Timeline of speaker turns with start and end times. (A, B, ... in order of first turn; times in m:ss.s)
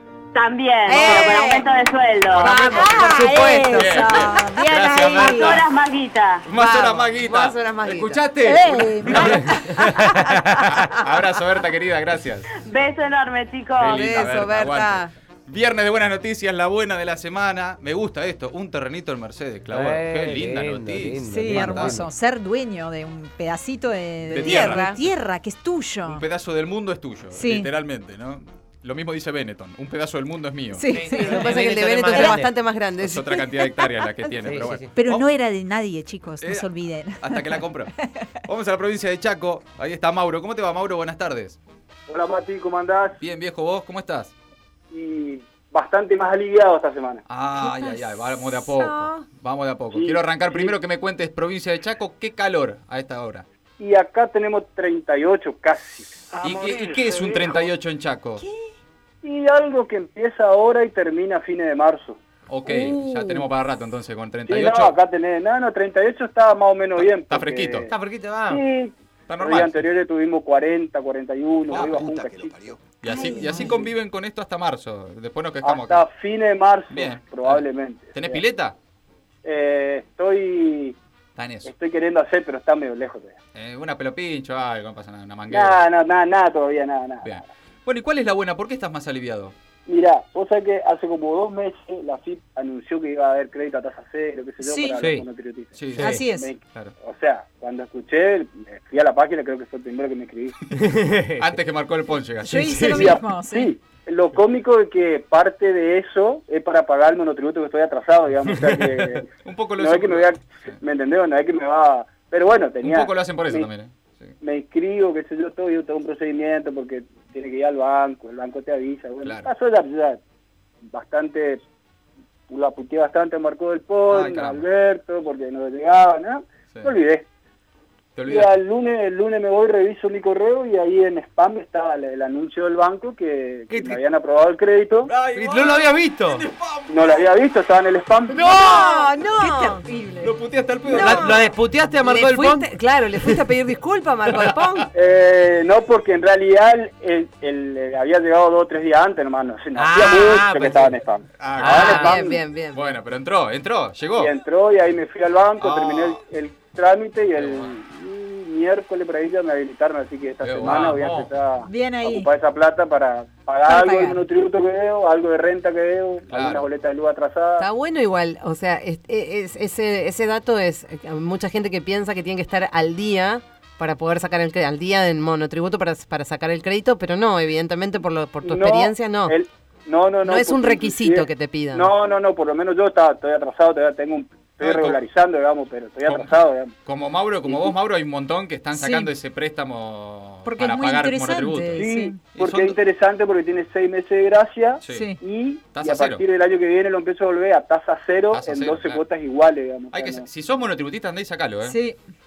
0:00.3-0:02.6 A
0:00.8-0:01.7 B
0:00.9-0:01.3 C
0:02.3-0:05.6 C
0:02.5-0:05.5 B
0:02.6-0:05.6 D
0:05.3-0:06.5 A
0:06.4-0:09.4 C
0:06.5-0:08.3 B
0:08.4-0:09.9 D
0:09.0-0:10.3 B
0:09.3-0:10.8 E
0:10.6-0:12.5 C
0:12.6-0:14.2 A
0:13.8-0:22.0 C
0:13.8-0:15.1 B
0:19.7-0:22.1 E
0:21.2-0:26.2 D
0:24.3-0:24.9 C
0:24.3-0:25.0 B
0:26.1-0:31.0 C
0:27.3-0:27.7 D
0:30.7-0:32.4 D
0:30.9-0:32.5 E
0:31.0-0:33.5 B
0:33.0-0:35.2 C
0:34.4-0:34.9 E
0:34.9-0:38.2 D
0:36.4-0:36.7 C
0:37.2-0:37.9 C
0:38.5-0:41.6 C
0:42.1-0:43.2 F
0:43.2-0:44.3 C
0:44.9-0:47.2 F
0:47.3-0:53.4 C
0:48.6-0:49.2 B
0:49.9-0:50.8 F
0:53.8-0:56.6 F
0:56.4-0:58.4 C
0:59.2-1:02.2 F
1:02.5-1:05.0 C
1:02.7-1:03.4 D
1:04.5-1:07.9 F
1:07.0-1:07.9 C
1:07.9-1:08.6 E
1:08.5-1:12.8 F
1:09.3-1:09.8 C
1:11.7-1:12.2 C
1:12.8-1:16.1 C
1:13.1-1:13.9 D
1:13.4-1:13.7 F
1:15.6-1:18.4 F
1:16.9-1:18.8 C
1:19.4-1:21.0 F
1:21.4-1:21.7 C
1:21.6-1:23.4 F
1:23.5-1:25.8 C
1:25.5-1:27.4 F
1:27.2-1:29.5 C
1:29.9-1:40.5 F
1:34.6-1:35.1 D
1:35.0-1:35.3 E
1:35.8-1:36.9 C
1:36.0-1:36.6 D
1:40.8-1:41.5 E
1:41.4-1:42.9 C
1:42.4-1:43.7 D
1:42.5-1:43.1 E
1:42.8-1:53.7 F
1:48.6-1:48.9 E
1:49.4-1:50.8 C
1:52.8-1:54.3 C
1:54.4-2:00.2 F
1:59.2-1:59.5 C
2:00.9-2:01.6 F
2:02.5-2:07.2 F
2:04.1-2:04.6 C
2:08.1-2:08.6 C
2:08.3-2:15.1 F
2:13.7-2:14.0 E
2:15.0-2:17.2 C
2:15.3-2:16.4 E
2:16.9-2:18.6 F
2:18.3-2:19.8 B
2:18.4-2:20.4 D
2:20.2-2:21.4 C
2:20.9-2:21.5 B
2:20.9-2:22.7 E
2:22.0-2:24.9 B
2:24.9-2:32.4 F
2:29.8-2:31.0 E
2:31.4-2:32.2 C
2:31.6-2:32.2 E
2:31.6-2:32.9 B
2:32.7-2:34.3 C
2:34.2-2:47.6 F
2:35.6-2:36.2 C
2:37.4-2:37.7 C
2:40.4-2:41.0 C
2:40.6-2:41.3 E
2:41.6-2:42.3 D
2:43.6-2:44.2 D
2:46.3-2:46.7 C
2:47.6-2:59.4 B
2:58.4-3:06.8 F
3:00.2-3:01.9 B
3:04.6-3:05.0 C
3:06.0-3:12.8 C
3:07.4-3:07.7 F
3:08.7-3:09.1 D
3:10.4-3:12.3 D
3:11.8-3:20.2 F
3:14.8-3:15.2 C
3:14.9-3:15.2 D
3:15.7-3:16.2 C
3:18.3-3:19.0 C
3:19.9-3:21.8 C
3:21.6-3:22.0 D